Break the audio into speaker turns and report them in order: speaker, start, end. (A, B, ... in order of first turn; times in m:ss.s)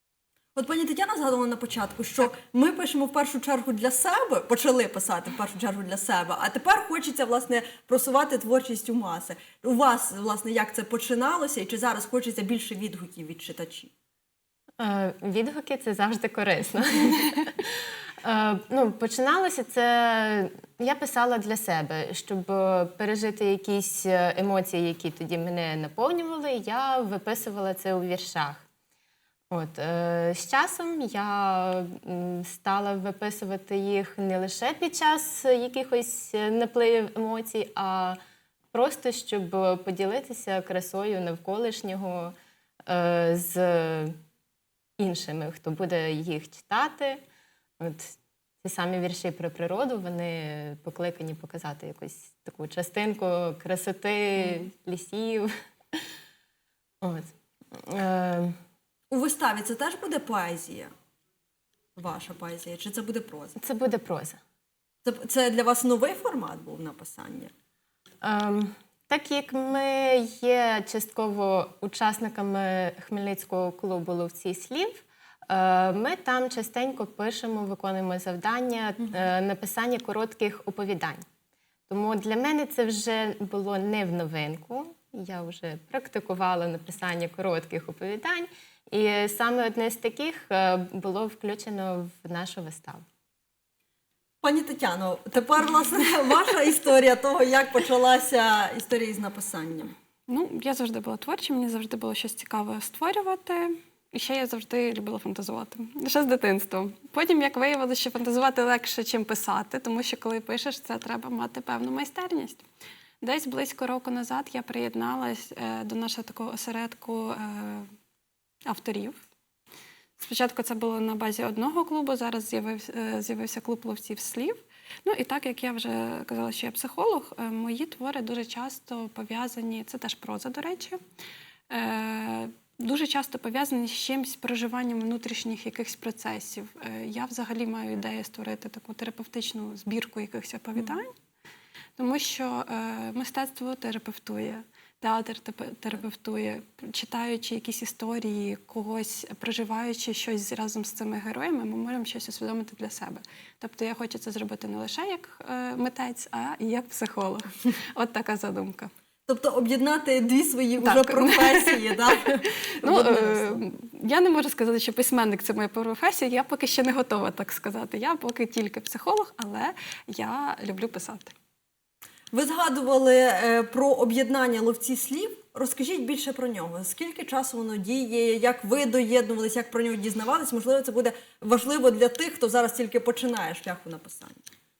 0:00.6-0:13.9 A
0:14.8-0:28.7 B
0:29.5-0:38.2 B
0:38.7-0:42.3 B
0:42.9-0:44.2 B
0:45.0-0:47.2 B
0:47.8-0:56.1 B
0:57.0-0:58.6 B
0:59.1-1:00.9 A
1:02.0-1:03.6 A
1:03.6-1:04.4 B
1:05.0-1:07.5 A
1:08.2-1:21.2 B
1:21.9-1:33.0 B
1:34.4-1:40.0 A
1:40.3-1:52.6 C
1:53.2-1:57.9 C
1:58.7-1:59.2 C
2:00.2-2:11.0 C
2:11.7-2:21.1 C
2:22.0-2:38.9 C
2:39.3-2:43.6 A
2:40.8-2:42.0 C
2:42.8-2:51.3 C
2:52.3-3:04.4 A